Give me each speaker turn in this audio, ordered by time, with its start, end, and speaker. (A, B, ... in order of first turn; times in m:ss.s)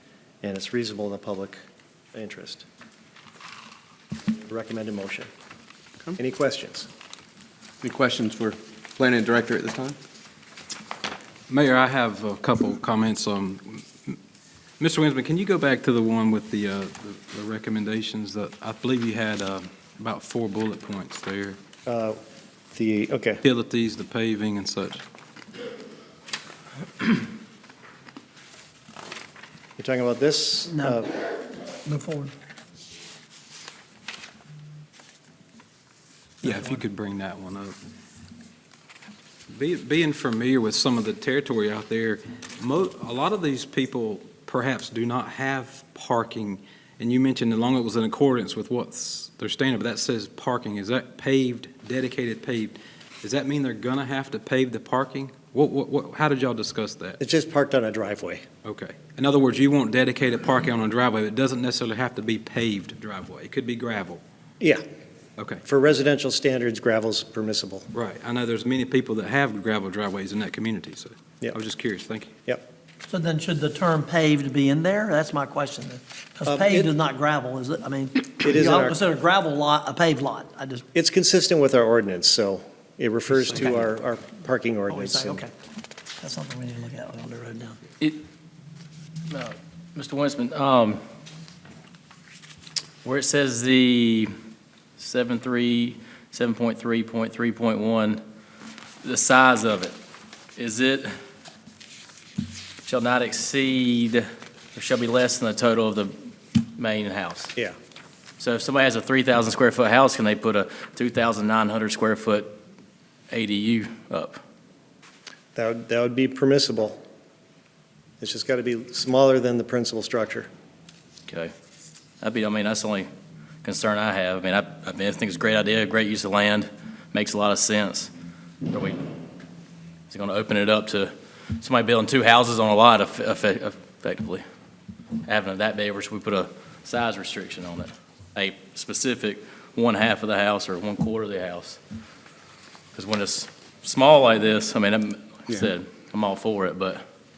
0:00.4-0:01.6 A
0:02.1-0:02.6 A
0:04.4-0:05.3 A
0:06.2-0:06.9 A
0:07.8-0:10.0 B
0:11.5-0:14.2 C
0:14.8-0:21.6 C
0:21.9-0:22.2 A
0:22.7-0:23.4 A
0:23.4-0:25.0 C
0:29.8-0:31.1 A
0:30.7-0:31.0 D
0:31.8-0:32.3 D
0:36.4-0:37.7 C
0:39.5-0:57.2 C
0:57.2-0:58.4 A
0:58.6-1:04.2 C
1:05.6-1:07.9 A
1:07.9-1:12.3 C
1:13.0-1:20.8 D
1:16.4-1:16.9 A
1:18.4-1:19.0 A
1:20.9-1:25.4 A
1:23.4-1:23.9 D
1:24.9-1:25.5 D
1:26.2-1:27.8 D
1:29.3-1:31.0 E
1:33.0-1:34.3 E
1:35.0-1:38.2 E
1:39.0-1:39.9 E
1:40.6-1:41.1 E
1:42.8-1:47.5 E
1:48.4-1:52.6 E
1:53.3-1:54.4 E
1:55.5-1:57.0 A
1:58.2-2:00.5 A
2:02.2-2:03.1 E
2:03.6-2:08.1 E
2:08.7-2:09.0 E
2:10.1-2:14.4 E
2:15.2-2:21.8 E
2:22.9-2:27.0 E